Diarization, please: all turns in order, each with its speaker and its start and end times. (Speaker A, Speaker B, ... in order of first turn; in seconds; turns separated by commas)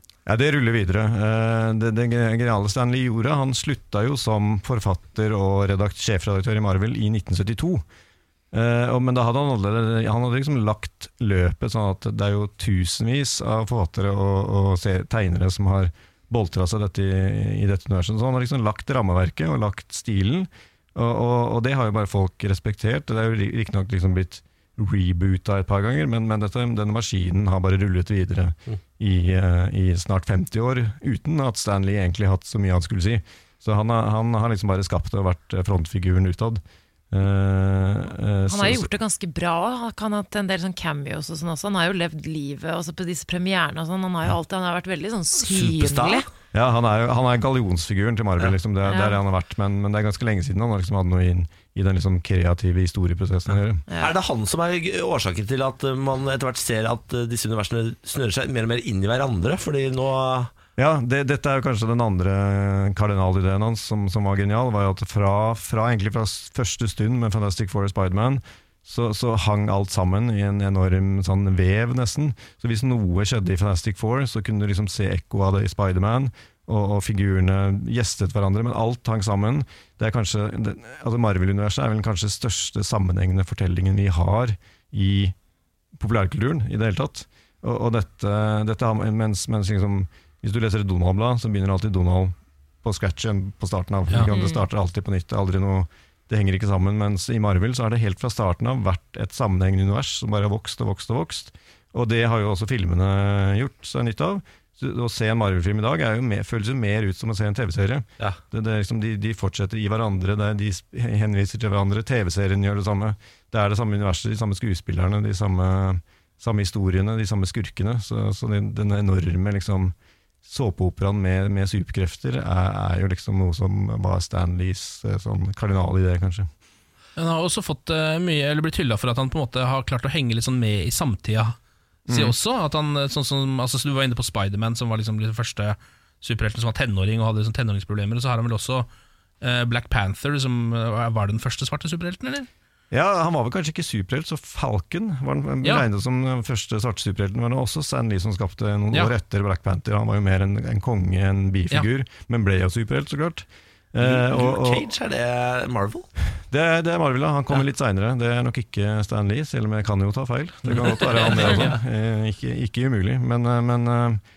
Speaker A: 0.2-7.8, Speaker A: 8.5-36.6, Speaker A: 37.1-38.9, Speaker B: 38.5-46.2, Speaker C: 45.4-46.2, Speaker A: 46.5-53.8, Speaker B: 48.8-49.2, Speaker B: 53.9-54.1, Speaker C: 54.0-60.5, Speaker A: 60.8-85.3, Speaker A: 86.0-119.9, Speaker B: 94.3-94.6, Speaker A: 120.4-126.5, Speaker D: 127.2-131.6, Speaker A: 132.1-132.3, Speaker D: 132.1-138.9, Speaker D: 139.4-142.5, Speaker A: 142.9-154.8, Speaker C: 154.0-156.1, Speaker A: 156.5-164.2, Speaker D: 161.3-161.7